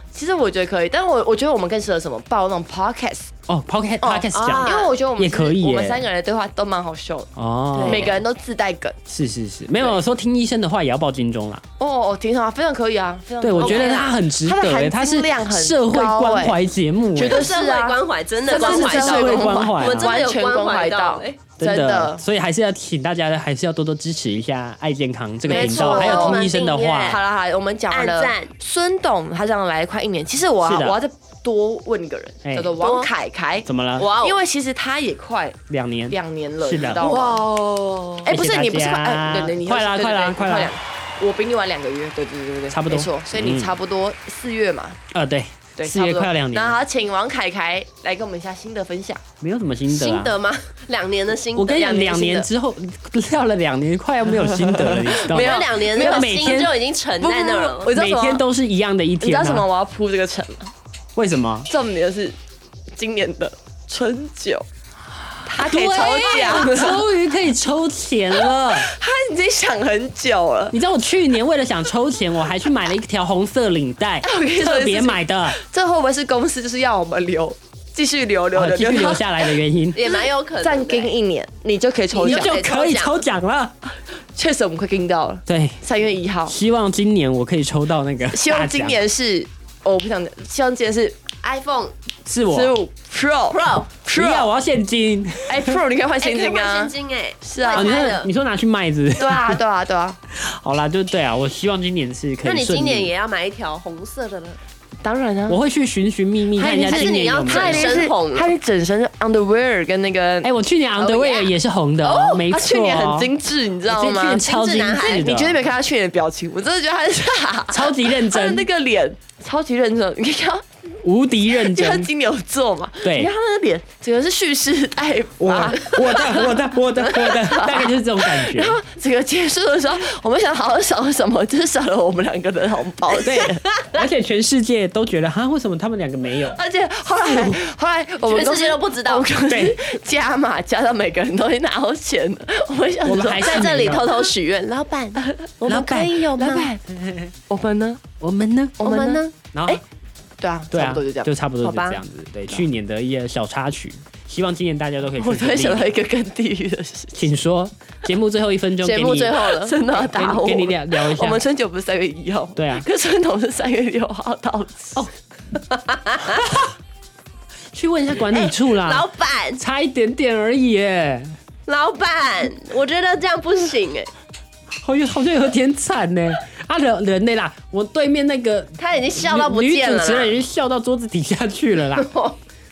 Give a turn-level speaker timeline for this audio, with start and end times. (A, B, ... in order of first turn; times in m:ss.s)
0:00.1-0:03.3 A
0:03.5-0:06.0 B
0:04.0-0:08.9 A
0:04.3-0:04.9 C
0:07.4-0:08.1 B
0:07.8-0:08.1 C
0:09.1-0:11.6 B
0:11.8-0:16.6 A
0:13.4-0:17.5 B
0:13.6-0:14.1 C
0:17.1-0:22.2 A
0:17.2-0:21.4 C
0:18.5-0:20.1 B
0:21.6-0:27.2 B
0:25.4-0:26.5 A
0:25.5-0:27.2 C
0:27.0-0:35.6 A
0:27.9-0:28.5 C
0:30.6-0:31.0 B
0:32.4-0:32.8 B
0:32.8-0:33.1 C
0:33.6-0:34.1 B
0:34.0-0:34.4 C
0:35.7-0:37.4 B
0:36.1-0:45.0 A
0:38.2-0:40.7 B
0:42.7-0:43.7 B
0:45.1-0:46.8 B
0:45.8-0:49.2 A
0:49.4-0:50.3 B
0:49.9-0:52.5 C
0:51.6-0:56.8 B
0:54.4-0:56.6 A
0:55.2-0:57.9 C
0:57.2-0:58.4 A
0:57.9-0:59.7 B
0:59.2-1:00.7 A
1:01.2-1:01.7 B
1:01.7-1:02.4 A
1:02.9-1:04.6 A
1:05.4-1:07.0 A
1:05.5-1:08.9 B
1:08.6-1:10.7 A
1:10.7-1:15.6 B
1:14.2-1:22.6 A
1:18.5-1:20.0 B
1:19.9-1:21.1 C
1:22.1-1:23.2 C
1:22.2-1:23.7 B
1:24.3-1:26.5 A
1:25.5-1:25.8 B
1:26.5-1:29.0 B
1:28.3-1:31.4 A
1:31.4-1:31.9 C
1:32.2-1:32.8 B
1:32.5-1:34.5 A
1:33.5-1:33.9 C
1:34.1-1:35.8 B
1:35.5-1:38.2 A
1:36.2-1:38.3 C
1:37.7-1:39.6 B
1:39.2-1:40.2 A
1:40.3-1:43.1 B
1:42.4-1:44.6 C
1:45.0-1:45.6 A
1:45.5-1:48.0 B
1:46.6-1:51.5 A
1:46.8-1:48.5 C
1:50.4-1:53.3 B
1:52.0-2:00.6 A
1:53.8-1:55.6 B
1:54.4-1:55.3 C
1:57.7-1:58.7 B
2:01.0-2:02.1 B
2:01.5-2:13.6 A
2:03.0-2:03.3 B
2:05.4-2:08.8 B
2:13.2-2:16.6 B
2:13.5-2:14.0 C
2:16.5-2:24.0 A
2:18.3-2:19.3 C
2:19.5-2:19.8 B
2:23.0-2:24.2 B
2:23.4-2:26.7 C
2:25.2-2:25.5 A
2:25.6-2:26.3 B
2:26.4-2:26.8 A
2:26.8-2:27.3 B
2:27.5-2:28.0 A
2:28.2-2:28.8 B
2:28.8-2:29.8 A
2:28.8-2:29.3 C
2:29.5-2:29.8 B
2:30.4-2:31.3 A
2:30.7-2:36.0 B
2:31.6-2:32.0 C
2:35.2-2:37.2 A
2:37.1-2:41.4 B
2:38.8-2:39.8 C
2:39.5-2:45.0 A
2:42.6-2:42.8 B
2:45.9-2:46.4 C
2:46.4-2:46.7 B
2:47.7-2:49.1 B
2:48.3-2:49.6 C
2:49.6-2:51.4 B
2:51.7-2:54.1 C
2:54.8-3:02.1 B
2:58.8-3:00.4 C
3:01.9-3:02.4 C